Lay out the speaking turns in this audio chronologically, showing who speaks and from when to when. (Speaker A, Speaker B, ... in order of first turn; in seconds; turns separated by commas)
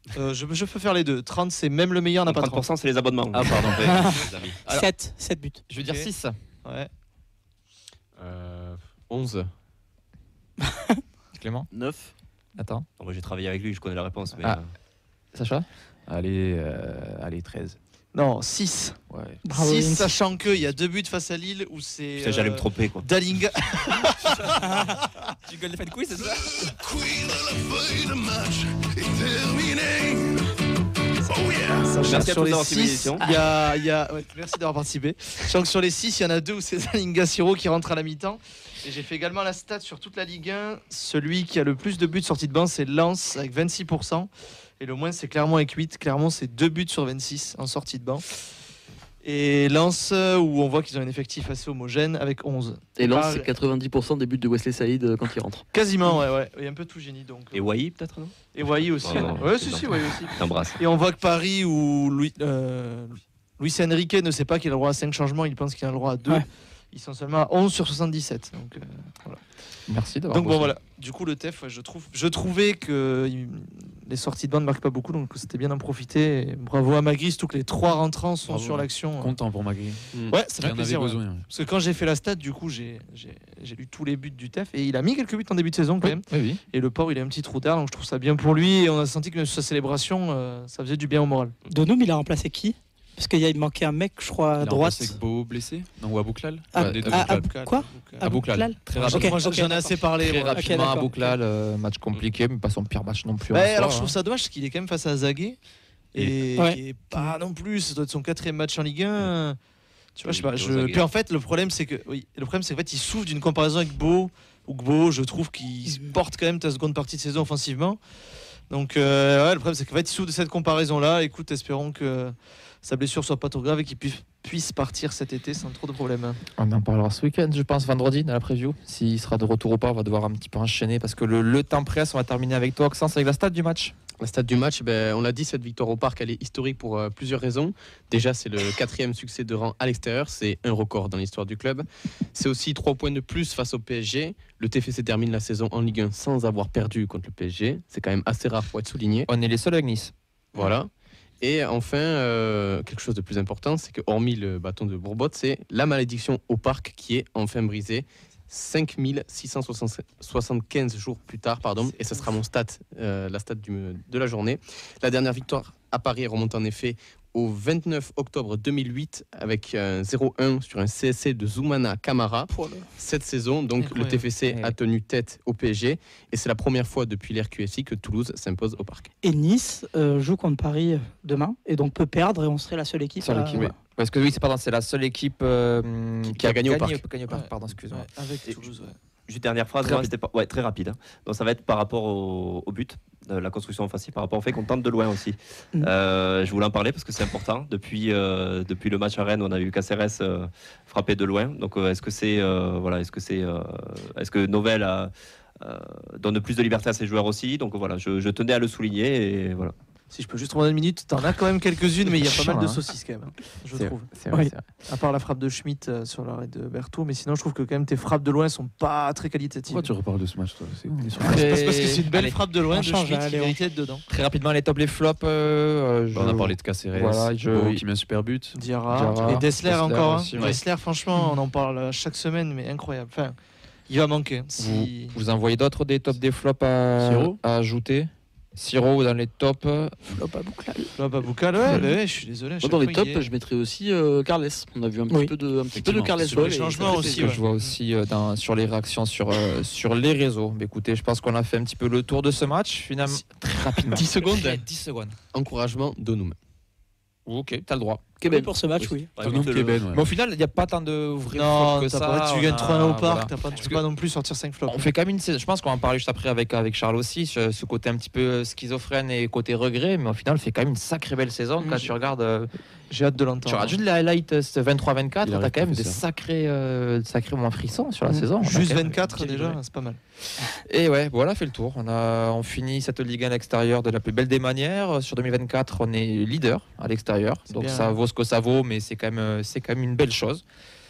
Speaker A: 0.2-2.7, Speaker B: 2.3-4.6, Speaker C: 3.3-4.8, Speaker D: 3.8-5.6, Speaker E: 5.7-6.3, Speaker A: 5.8-6.1, Speaker A: 6.6-6.9, Speaker F: 8.2-9.5, Speaker E: 11.4-11.7, Speaker G: 11.7-12.1, Speaker E: 12.6-12.9, Speaker B: 13.0-14.7, Speaker E: 15.3-15.7, Speaker C: 16.1-17.8, Speaker A: 18.1-24.9, Speaker C: 19.1-19.4, Speaker D: 19.4-20.1, Speaker B: 22.2-23.1, Speaker E: 25.5-26.7, Speaker B: 31.4-33.2, Speaker A: 31.7-44.3, Speaker A: 44.8-48.2, Speaker A: 49.2-53.5, Speaker G: 53.0-55.6, Speaker A: 55.7-57.6, Speaker B: 57.5-60.8, Speaker A: 58.5-69.4, Speaker E: 69.9-70.7, Speaker A: 70.3-79.4, Speaker C: 78.5-81.5, Speaker A: 80.3-91.5, Speaker E: 86.0-86.6, Speaker D: 91.7-95.2, Speaker C: 94.6-97.5, Speaker D: 96.7-100.0, Speaker A: 96.8-98.3, Speaker C: 98.2-99.5, Speaker A: 99.0-101.4, Speaker E: 100.2-104.2, Speaker A: 103.5-105.6, Speaker A: 106.1-109.6, Speaker D: 106.6-107.3, Speaker A: 110.2-118.0, Speaker B: 110.3-111.0, Speaker A: 118.7-126.4, Speaker E: 126.6-133.9, Speaker F: 134.2-149.3, Speaker E: 149.3-150.1, Speaker F: 150.6-179.1, Speaker D: 172.5-172.9, Speaker A: 173.8-174.2, Speaker D: 179.2-183.7, Speaker E: 183.2-188.1, Speaker F: 186.3-187.0, Speaker A: 187.3-189.0, Speaker B: 189.3-209.7, Speaker E: 189.8-190.1, Speaker A: 210.1-214.1, Speaker E: 212.1-212.8, Speaker E: 213.8-214.6, Speaker A: 214.8-219.9, Speaker C: 219.7-221.5, Speaker E: 221.2-222.4, Speaker A: 221.2-224.1, Speaker D: 222.7-223.6, Speaker E: 224.1-227.8, Speaker C: 226.1-228.6, Speaker A: 228.5-233.4, Speaker E: 228.9-230.6, Speaker C: 229.2-229.5, Speaker C: 230.3-230.6, Speaker A: 233.9-235.1, Speaker E: 234.6-240.0, Speaker C: 237.0-237.4, Speaker D: 240.1-241.0, Speaker A: 241.0-243.3, Speaker D: 241.6-241.9, Speaker G: 242.6-247.4, Speaker C: 245.7-247.0, Speaker A: 246.2-247.7, Speaker E: 246.9-255.2, Speaker F: 253.9-254.6, Speaker F: 255.3-256.4, Speaker E: 257.3-258.0, Speaker D: 258.2-259.1, Speaker B: 259.2-259.9, Speaker C: 259.2-260.0, Speaker E: 259.9-263.8, Speaker A: 261.3-264.9, Speaker E: 264.7-272.5, Speaker A: 271.6-271.9, Speaker A: 272.9-273.8, Speaker E: 273.4-279.6, Speaker C: 275.2-276.0, Speaker A: 278.4-280.0, Speaker E: 280.4-290.4, Speaker A: 287.5-288.0